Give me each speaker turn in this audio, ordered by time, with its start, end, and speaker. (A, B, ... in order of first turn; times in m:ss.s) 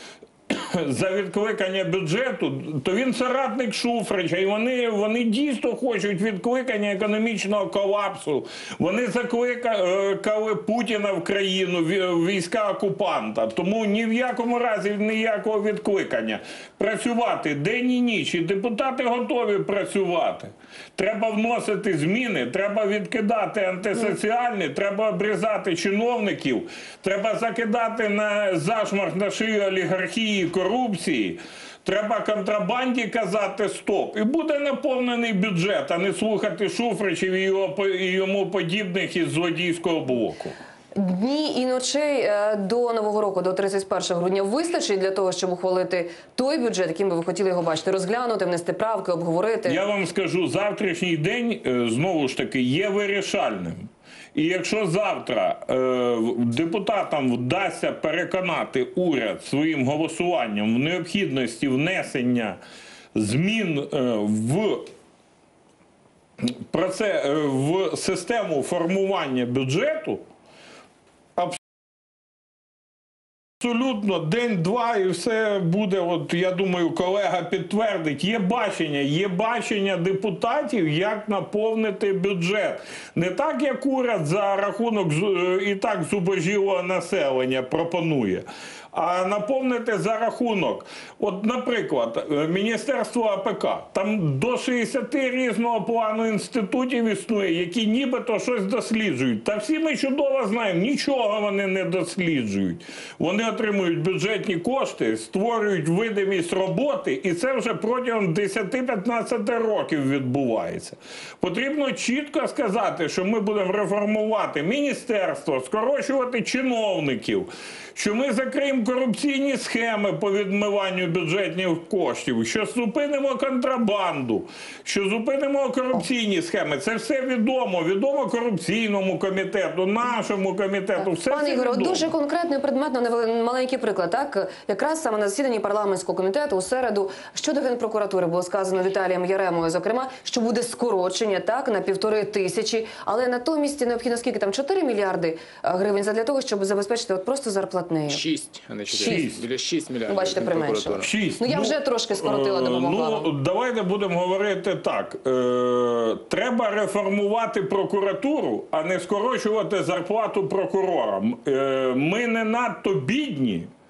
0:00.5-0:40.6 A
0:41.0-0:49.8 B
0:49.6-1:02.6 A
1:03.2-1:04.9 A
1:06.4-1:10.2 A
1:13.6-2:12.1 A
2:11.0-2:28.2 B
2:28.1-2:31.1 C
2:28.9-2:29.5 A
2:30.1-2:33.3 B
2:31.0-2:43.7 A